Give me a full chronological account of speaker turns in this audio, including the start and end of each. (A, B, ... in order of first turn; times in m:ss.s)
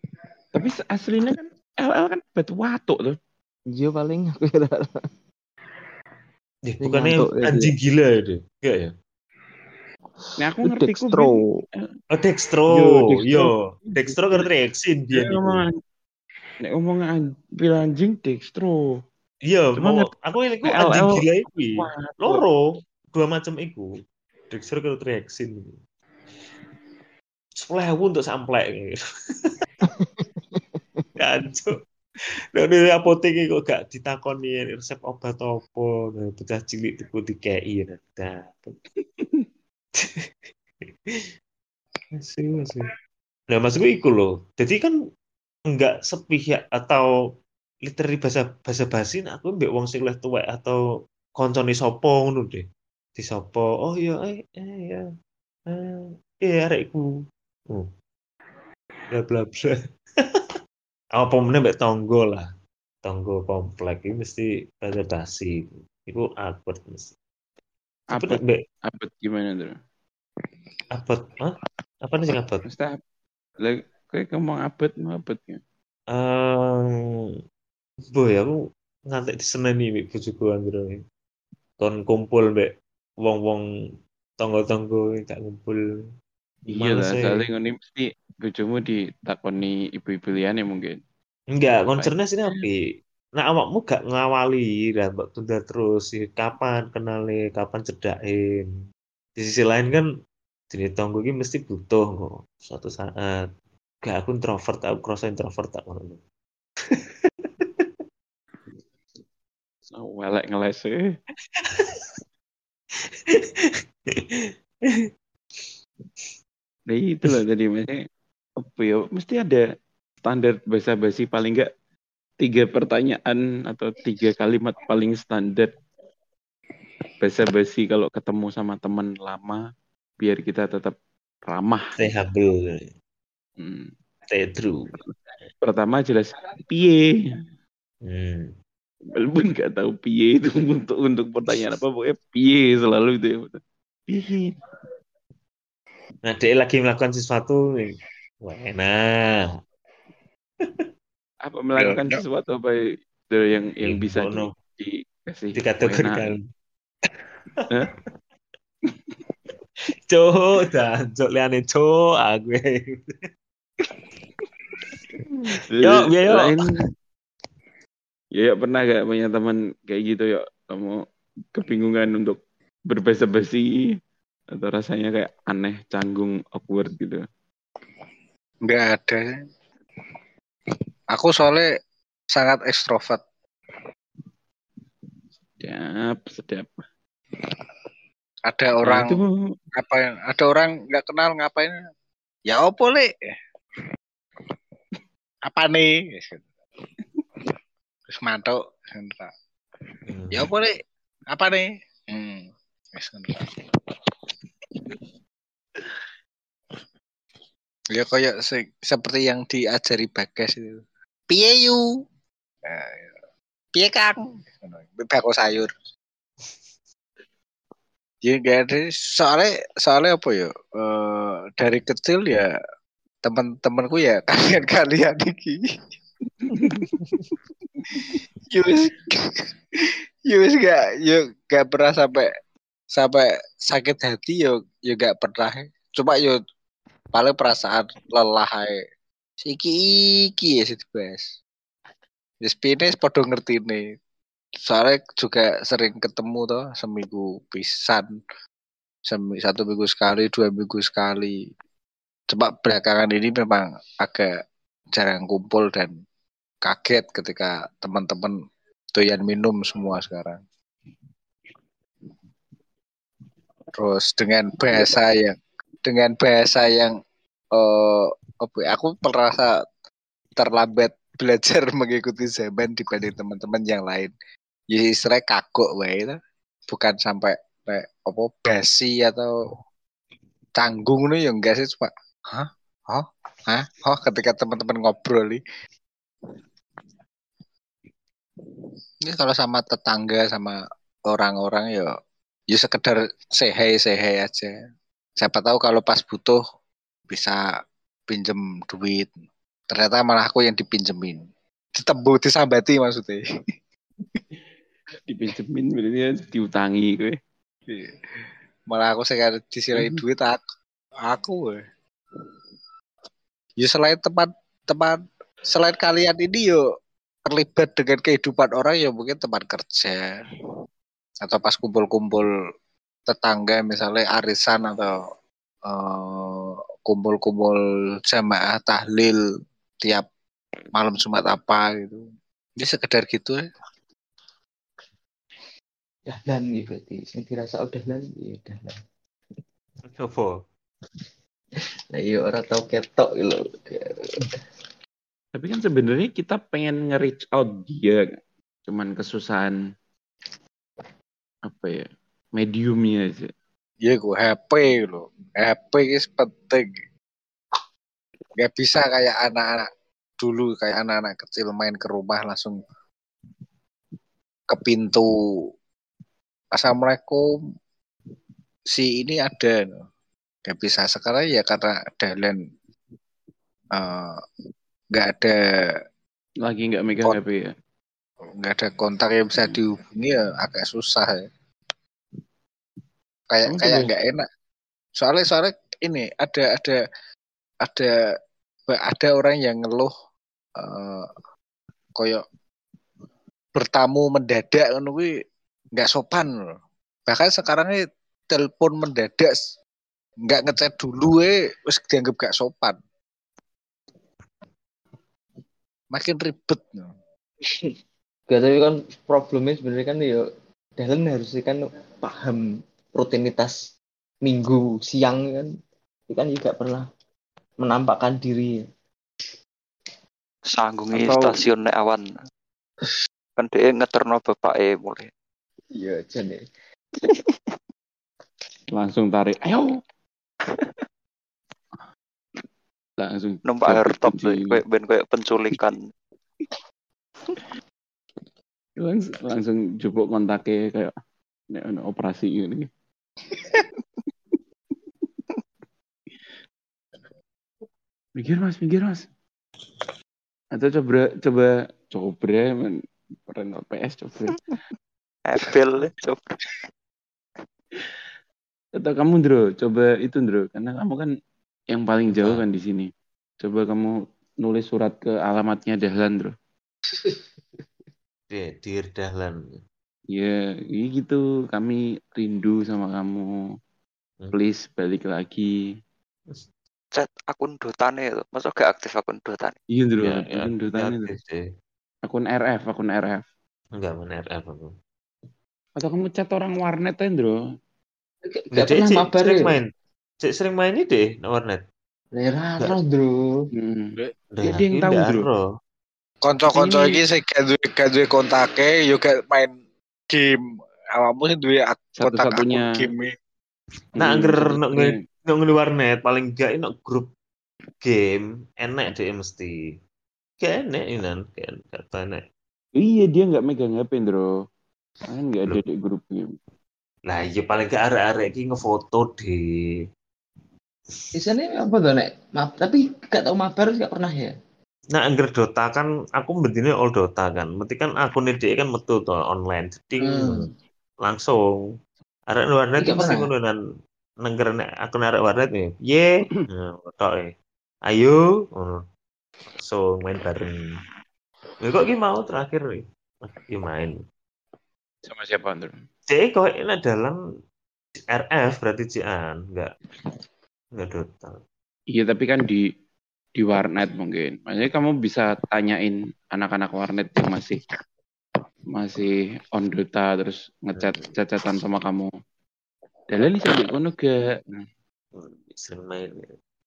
0:00.5-0:03.2 A
0:03.7-0:04.9 B
0:06.6-0:08.9 C
0:06.8-0:07.7 B
0:10.4-0:11.9 A
0:10.6-0:11.4 B
0:12.1-0:15.6 C
0:12.7-0:14.4 A
0:15.1-0:15.7 A
0:16.6-0:18.8 A
0:19.4-0:23.9 C
0:19.8-0:20.1 A
0:20.6-0:22.4 A
0:24.5-0:25.8 C
0:27.6-0:29.6 C
0:29.9-0:31.0 B
0:31.2-0:31.8 C
0:32.6-0:38.8 C
0:39.2-0:39.5 A
0:39.9-0:40.3 C
0:42.2-0:42.9 C
0:43.5-0:45.0 C
0:45.7-0:47.1 C
0:47.8-0:50.8 C
0:51.4-0:52.6 C
0:53.2-0:55.1 C
0:55.7-0:57.1 C
0:59.1-1:00.4 C
1:01.1-1:02.5 C
1:03.0-1:07.1 C
1:08.1-1:09.8 A
1:08.1-1:08.6 C
1:10.9-1:12.6 C
1:12.6-1:13.0 A
1:13.6-1:15.6 A
1:16.1-1:17.3 C
1:18.1-1:21.0 C
1:21.8-1:22.7 C
1:23.2-1:23.6 C
1:24.4-1:25.8 C
1:26.7-1:31.0 A
1:26.8-1:27.4 C
1:31.5-1:32.8 C
1:32.0-1:32.6 A
1:33.4-1:38.7 C
1:39.4-1:40.1 C
1:40.7-1:43.4 C
1:44.0-1:46.2 C
1:46.9-1:47.9 C
1:49.9-1:51.1 A
1:51.5-1:52.2 C
1:53.0-1:55.1 C
1:56.9-1:58.0 A
1:58.6-1:59.6 A
2:00.2-2:01.7 A
2:02.4-2:05.7 A
2:07.2-2:09.6 A
2:10.2-2:10.9 A
2:11.4-2:11.9 A
2:12.0-2:12.9 C
2:13.6-2:13.9 A
2:14.3-2:15.0 C
2:15.6-2:17.1 A
2:18.0-2:18.5 C
2:19.1-2:24.6 A
2:26.2-2:29.6 C
2:31.4-2:36.3 A
2:31.8-2:32.1 C
2:33.8-2:34.5 C
2:35.6-2:36.4 C
2:38.9-2:39.1 A
2:40.1-2:43.3 C
2:45.3-2:46.7 C
2:45.7-2:46.8 A
2:48.4-2:51.0 A
2:51.6-2:52.4 A
2:52.9-2:53.8 A
2:54.5-2:57.2 A
2:58.6-2:59.4 D
3:01.1-3:01.7 D
3:02.3-3:03.2 D
3:05.6-3:06.8 A
3:08.5-3:09.2 D
3:08.8-3:09.4 A
3:09.8-3:11.8 D
3:12.5-3:13.3 D
3:15.4-3:16.4 D
3:18.1-3:19.3 D
3:20.1-3:20.5 C
3:20.3-3:20.8 D
3:21.3-3:24.1 D
3:27.9-3:32.0 D
3:32.6-3:33.1 D
3:33.8-3:35.7 D
3:38.2-3:42.5 D
3:43.2-3:45.6 D
3:46.4-3:47.0 A
3:47.0-3:47.3 C
3:47.9-3:52.3 D
3:48.6-3:48.9 A
3:52.9-3:56.4 D
3:57.1-3:58.8 D
3:59.4-4:01.3 D
4:02.4-4:03.9 D
4:04.6-4:08.1 D
4:09.1-4:11.5 D
4:12.3-4:14.4 D
4:14.9-4:15.9 D
4:16.6-4:18.4 D
4:18.9-4:20.4 D
4:23.8-4:27.0 D
4:27.5-4:29.6 D
4:30.4-4:34.1 D
4:34.7-4:36.2 D
4:36.7-4:39.3 D
4:40.6-4:45.4 D
4:48.5-4:51.9 D
4:52.5-4:54.6 D
4:55.2-4:56.4 D
4:57.1-4:57.4 D
4:58.1-4:59.1 D
4:59.7-5:01.2 D
5:01.8-5:03.2 D
5:05.1-5:07.2 A
5:07.7-5:08.0 D
5:08.7-5:10.4 D
5:09.8-5:10.0 A
5:11.0-5:11.6 D
5:13.6-5:16.6 D
5:17.3-5:20.2 D
5:21.2-5:22.3 D
5:23.1-5:25.0 D
5:25.6-5:29.2 D
5:29.8-5:30.1 D
5:30.7-5:32.0 D
5:32.6-5:33.4 D
5:36.1-5:38.8 B
5:39.8-5:40.4 C
5:41.9-5:44.2 B
5:45.3-5:48.0 A
5:48.7-5:49.6 A
5:51.5-5:51.9 A
5:52.4-5:53.3 A
5:53.8-5:56.8 D
5:58.4-5:59.7 D
6:00.2-6:02.6 D
6:04.5-6:05.1 D
6:06.5-6:07.2 D
6:08.7-6:09.8 D
6:10.4-6:12.4 D
6:13.7-6:14.2 D
6:14.9-6:15.8 D
6:16.4-6:17.5 A
6:18.4-6:21.3 D
6:23.3-6:24.3 D
6:23.4-6:23.9 A
6:25.0-6:26.8 D
6:27.6-6:27.9 D
6:28.7-6:29.9 D
6:30.6-6:31.1 D
6:32.0-6:32.2 D
6:33.6-6:35.1 D
6:35.7-6:36.5 D
6:37.1-6:39.4 D
6:40.3-6:42.8 D
6:45.9-6:46.9 D
6:48.3-6:50.3 B
6:50.8-6:52.4 B
6:53.0-6:53.7 B
6:54.2-6:55.5 B
6:56.1-6:56.8 B
6:57.6-6:58.6 B
7:00.5-7:02.1 E
7:00.9-7:01.4 B
7:03.4-7:05.1 E
7:05.7-7:06.4 B
7:08.7-7:09.8 A
7:13.0-7:14.6 A
7:13.4-7:15.8 E
7:18.8-7:20.9 A
7:21.5-7:22.7 A
7:28.2-7:29.1 A
7:30.5-7:34.4 A
7:35.3-7:36.2 E
7:38.8-7:41.1 A
7:41.7-7:42.9 A
7:42.1-7:42.4 C
7:43.4-7:46.3 A
7:48.3-7:49.6 C
7:50.1-7:53.3 A
7:54.3-7:55.5 A
7:56.9-7:59.6 E
7:59.7-8:01.1 A
8:00.0-8:01.4 C
8:02.0-8:03.2 A
8:03.8-8:04.7 C
8:05.8-8:07.4 A
8:08.2-8:09.6 B
8:08.5-8:09.7 C
8:10.2-8:11.6 C
8:12.1-8:13.5 B
8:13.6-8:15.3 A
8:14.3-8:15.4 C
8:16.2-8:19.6 D
8:16.5-8:17.0 A
8:20.1-8:23.2 D
8:22.0-8:22.7 A
8:24.0-8:27.1 C
8:24.0-8:25.0 A
8:27.8-8:29.6 C
8:30.4-8:32.2 C
8:32.8-8:34.3 A
8:35.1-8:36.3 A
8:37.1-8:39.4 C
8:41.1-8:44.3 B
8:44.9-8:50.5 C
8:50.0-8:50.5 B
8:51.0-8:51.7 C
8:52.3-8:53.6 C
8:52.8-8:53.3 B
8:54.2-8:57.3 C
8:57.9-8:58.8 C
8:59.6-9:00.8 C
9:01.6-9:04.0 C
9:05.0-9:05.7 A
9:06.1-9:07.2 C
9:08.0-9:09.7 C
9:10.8-9:11.4 C
9:11.9-9:12.7 A
9:13.4-9:17.6 A
9:18.7-9:22.1 A
9:20.7-9:21.0 C
9:23.1-9:24.7 A
9:25.1-9:26.3 C